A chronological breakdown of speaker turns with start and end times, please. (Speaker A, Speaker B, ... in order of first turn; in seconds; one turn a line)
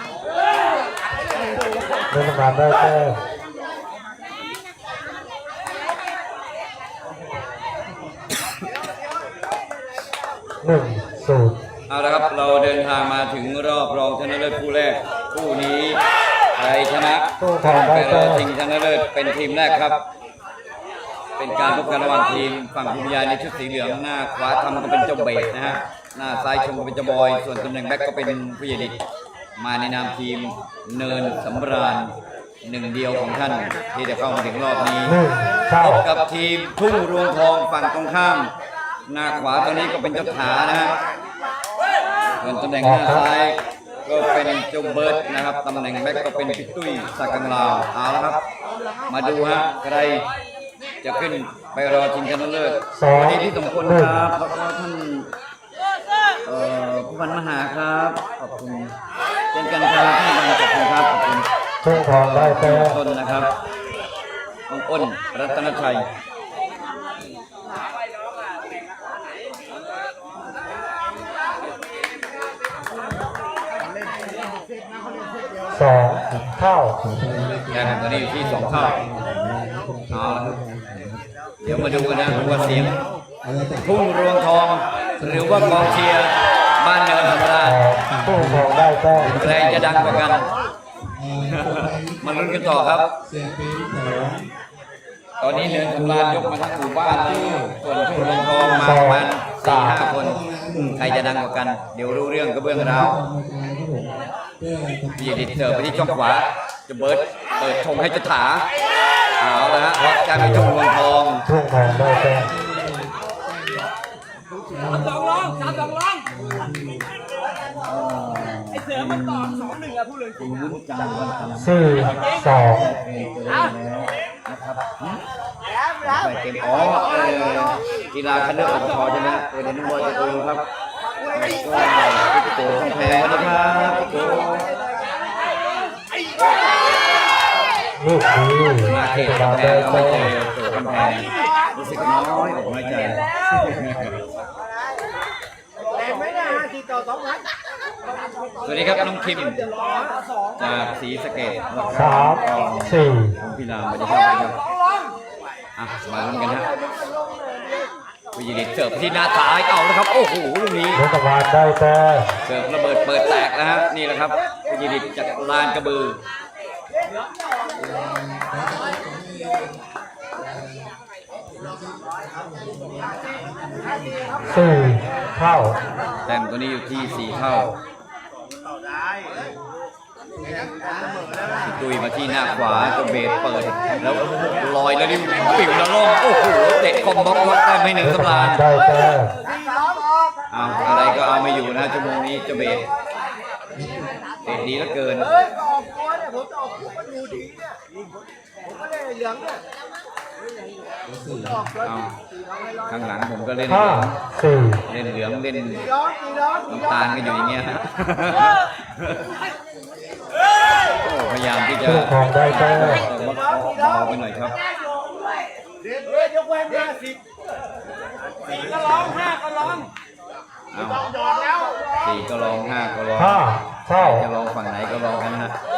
Speaker A: 2.1-3.2
Speaker A: 10.6-11.6
Speaker B: 11.9-16.0
Speaker B: 16.6-20.0
Speaker A: 17.4-18.5
Speaker B: 21.4-29.0
Speaker B: 29.6-32.1
Speaker B: 32.6-35.1
Speaker A: 35.0-36.0
Speaker B: 35.8-38.5
Speaker B: 39.1-41.0
Speaker B: 42.4-48.4
Speaker A: 42.8-43.2
Speaker B: 49.1-50.2
Speaker B: 51.0-55.3
Speaker A: 52.9-54.3
Speaker B: 56.5-58.9
Speaker B: 59.5-63.5
Speaker A: 61.8-63.0
Speaker B: 64.7-66.0
Speaker A: 75.7-77.0
Speaker C: 77.0-84.0
Speaker B: 77.7-79.0
Speaker B: 80.1-80.6
Speaker B: 81.6-82.9
Speaker B: 83.8-87.8
Speaker C: 85.2-86.1
Speaker C: 87.2-90.4
Speaker A: 87.6-89.5
Speaker B: 89.2-90.5
Speaker C: 91.1-94.5
Speaker B: 91.5-93.1
Speaker B: 95.4-103.2
Speaker C: 95.5-99.1
Speaker A: 98.8-100.0
Speaker C: 100.0-101.2
Speaker C: 102.7-106.2
Speaker B: 105.2-108.7
Speaker B: 109.4-111.4
Speaker A: 110.3-110.7
Speaker A: 111.5-112.5
Speaker C: 111.7-113.9
Speaker C: 114.7-117.1
Speaker B: 117.8-119.8
Speaker B: 120.4-125.2
Speaker A: 121.6-122.9
Speaker B: 126.0-130.6
Speaker B: 131.3-134.7
Speaker A: 138.0-140.3
Speaker B: 138.9-144.1
Speaker B: 148.6-149.7
Speaker B: 150.6-154.6
Speaker A: 151.9-153.4
Speaker B: 155.8-156.7
Speaker B: 158.3-161.0
Speaker A: 160.9-162.3
Speaker B: 162.4-166.2
Speaker C: 167.8-169.8
Speaker C: 170.4-170.9
Speaker C: 171.5-174.7
Speaker A: 174.5-175.8
Speaker B: 176.3-177.7
Speaker C: 177.0-177.7
Speaker C: 180.4-182.0
Speaker B: 181.7-188.6
Speaker C: 184.2-184.7
Speaker A: 188.0-189.3
Speaker B: 190.5-192.8
Speaker C: 193.7-194.6
Speaker B: 194.4-195.3
Speaker C: 201.0-201.7
Speaker B: 201.8-202.1
Speaker B: 202.9-204.2
Speaker A: 203.7-204.8
Speaker B: 204.9-205.9
Speaker B: 206.7-209.2
Speaker B: 211.0-214.6
Speaker A: 211.8-213.0
Speaker C: 218.7-219.3
Speaker B: 220.7-221.1
Speaker B: 222.0-223.4
Speaker A: 223.2-224.2
Speaker B: 224.0-225.5